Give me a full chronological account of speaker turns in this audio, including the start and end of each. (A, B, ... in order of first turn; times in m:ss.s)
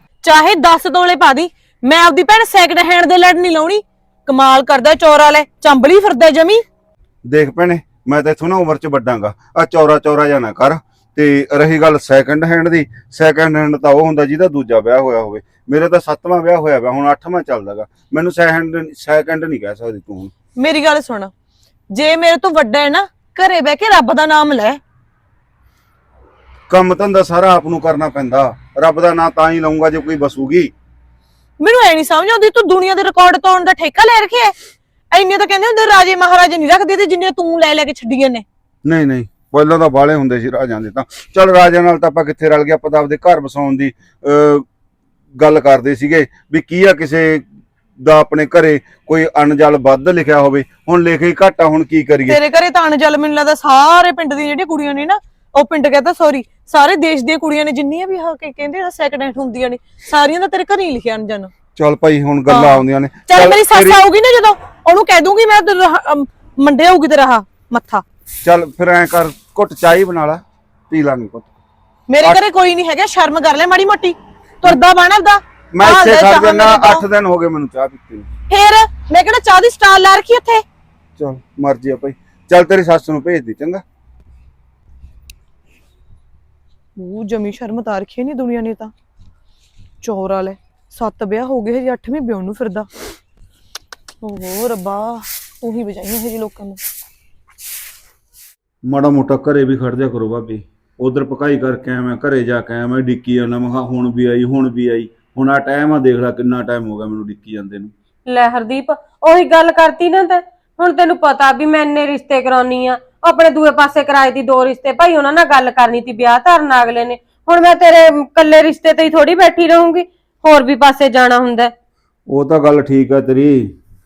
0:00.2-0:06.6 A
0:07.2-0:20.3 B
0:20.6-0:21.3 A
0:21.9-0:24.8 A
0:26.7-0:30.7 B
0:31.6-0:34.5 A
0:35.1-0:38.4 A
0:38.8-0:44.6 B
0:45.3-0:47.4 B
0:48.0-0:52.4 B
0:52.3-1:01.5 A
1:01.8-1:04.0 B
1:02.5-1:08.0 A
1:08.4-1:11.5 B
1:12.1-1:17.0 A
1:15.7-1:18.3 B
1:18.5-1:20.6 A
1:21.2-1:23.8 B
1:27.0-1:28.9 A
1:30.0-1:32.9 A
1:34.2-1:36.8 A
1:38.8-1:47.9 B
1:48.3-2:01.7 C
2:02.3-2:03.6 B